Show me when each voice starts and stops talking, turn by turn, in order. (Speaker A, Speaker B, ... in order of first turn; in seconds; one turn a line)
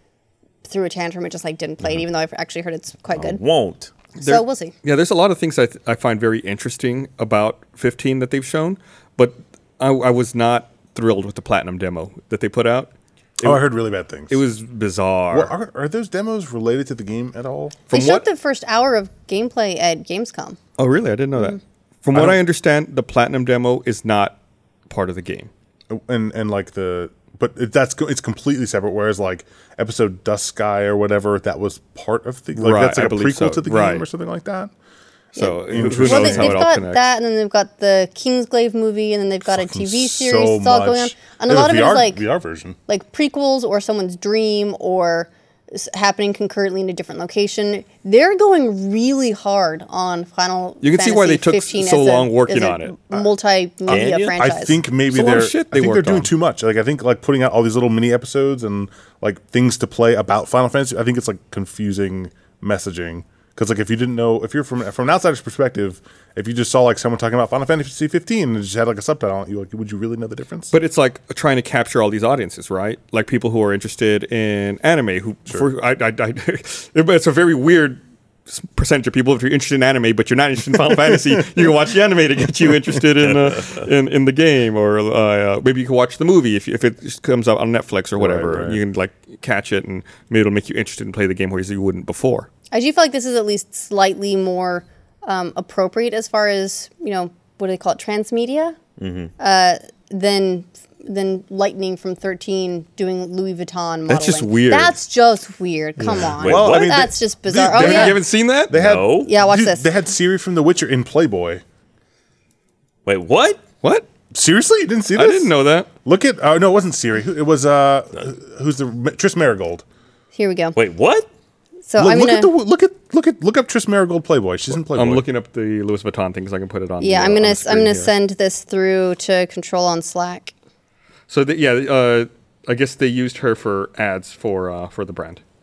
Speaker A: 0.7-3.4
Speaker B: 3.1-3.9
Speaker C: 4.2-13.6
Speaker A: 4.2-4.7
Speaker D: 13.4-14.4
Speaker C: 14.3-15.5
Speaker D: 15.3-17.8
Speaker C: 17.9-18.2
Speaker A: 17.9-20.6
Speaker C: 20.8-24.4
Speaker D: 22.1-22.4
Speaker C: 24.9-25.5
Speaker D: 25.9-34.7
Speaker C: 32.5-34.0
Speaker C: 35.4-37.1
Speaker A: 35.4-42.2
Speaker D: 35.7-36.6
Speaker D: 39.5-42.8
Speaker A: 42.9-54.8
Speaker C: 50.8-52.9
Speaker D: 53.9-70.7
Speaker B: 53.9-54.4
Speaker C: 55.1-56.3
Speaker C: 70.7-92.5
Speaker D: 88.2-88.8
Speaker A: 92.7-98.8
Speaker B: 99.0-99.3
Speaker A: 99.4-108.2
Speaker C: 104.1-105.0
Speaker B: 106.2-107.1
Speaker D: 106.4-111.6
Speaker C: 107.7-108.7
Speaker B: 108.7-109.3
Speaker A: 109.2-109.8
Speaker B: 113.1-113.6
Speaker D: 114.3-115.5
Speaker C: 115.2-115.9
Speaker D: 116.0-119.8
Speaker A: 120.3-120.8
Speaker B: 120.8-121.3
Speaker A: 121.9-122.5
Speaker D: 122.0-125.2
Speaker C: 124.9-128.1
Speaker A: 127.0-130.5
Speaker C: 131.3-135.4